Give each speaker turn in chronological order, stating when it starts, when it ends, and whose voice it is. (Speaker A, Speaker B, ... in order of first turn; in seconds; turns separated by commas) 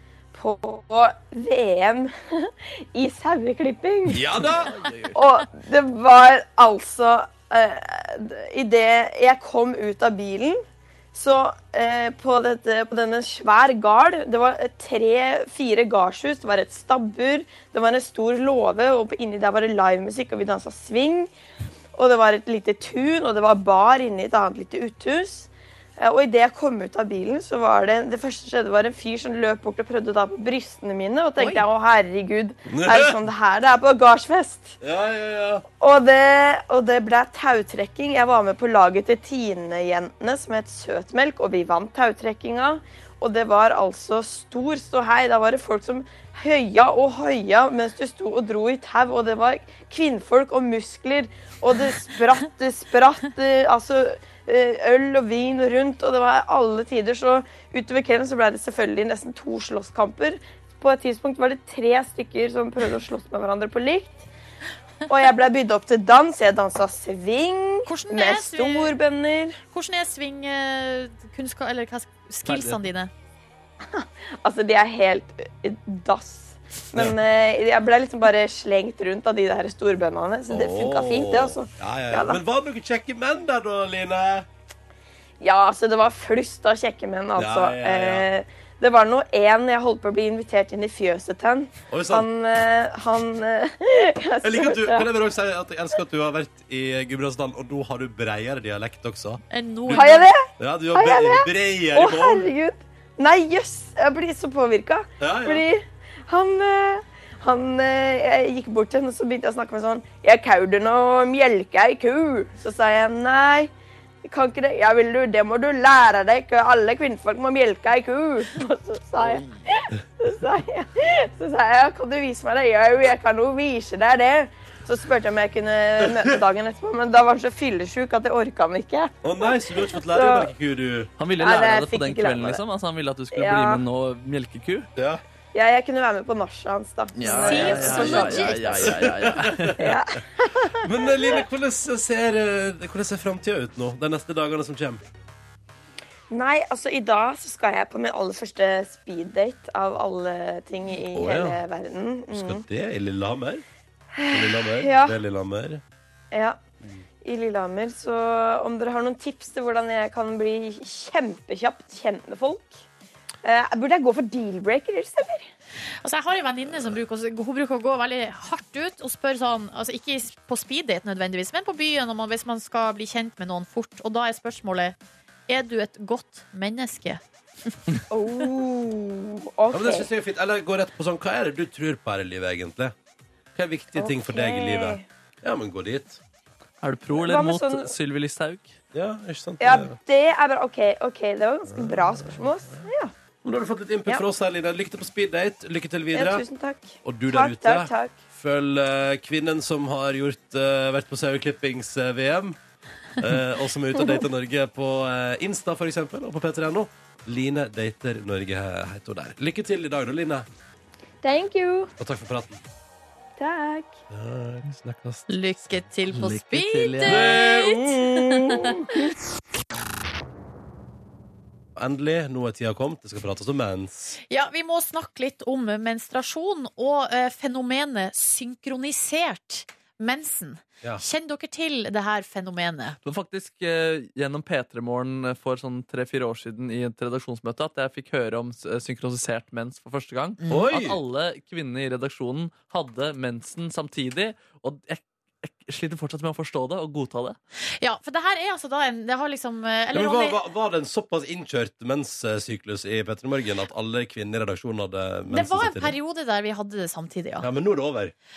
Speaker A: 0.3-4.3, Speaker B: 4.1-4.8, Speaker C: 4.7-5.2, Speaker A: 5.1-21.3, Speaker A: 21.9-34.8, Speaker D: 31.4-31.6, Speaker B: 32.7-33.2, Speaker B: 34.8-35.6, Speaker A: 35.8-64.3, Speaker A: 65.1-69.6, Speaker D: 67.9-68.9, Speaker D: 69.7-73.1, Speaker C: 72.5-72.8, Speaker A: 73.8-82.4, Speaker B: 80.5-84.5, Speaker A: 85.4-95.1, Speaker B: 87.4-88.3, Speaker B: 91.9-92.3, Speaker B: 94.4-102.5, Speaker D: 99.5-100.3, Speaker A: 99.9-113.7, Speaker B: 105.2-105.7, Speaker A: 114.2-130.5, Speaker B: 129.2-131.1, Speaker C: 131.2-134.9, Speaker A: 131.4-132.6, Speaker A: 133.3-133.8, Speaker B: 135.0-135.2, Speaker A: 135.5-138.9, Speaker C: 137.2-140.0, Speaker D: 137.2-138.9, Speaker B: 137.6-138.2, Speaker B: 138.8-140.0, Speaker A: 139.8-141.4, Speaker B: 140.7-145.0, Speaker A: 146.3-152.6, Speaker B: 151.2-151.6, Speaker B: 152.3-153.6, Speaker A: 154.2-155.2, Speaker B: 154.3-155.8, Speaker A: 156.3-156.6, Speaker A: 157.2-162.8, Speaker A: 163.4-165.5, Speaker D: 166.0-175.0, Speaker B: 166.7-167.0, Speaker D: 175.5-177.7, Speaker A: 178.1-180.1, Speaker B: 179.7-182.9, Speaker B: 183.6-186.2, Speaker A: 183.9-185.1, Speaker C: 186.8-188.8, Speaker A: 187.2-187.9, Speaker B: 188.9-190.0, Speaker A: 189.6-193.1, Speaker B: 191.7-192.4, Speaker B: 193.4-196.4, Speaker A: 196.1-198.1, Speaker B: 197.0-202.6, Speaker B: 203.2-210.5, Speaker A: 211.2-211.9, Speaker B: 212.0-212.6, Speaker A: 213.4-214.0, Speaker B: 214.1-215.8, Speaker D: 215.3-218.7, Speaker C: 216.1-217.4, Speaker B: 217.0-218.7, Speaker A: 218.6-219.0, Speaker B: 221.8-224.2, Speaker D: 224.3-233.0, Speaker C: 233.0-247.4, Speaker B: 240.5-241.0, Speaker D: 247.8-250.4, Speaker B: 249.9-256.0, Speaker D: 255.3-257.5, Speaker B: 257.4-258.1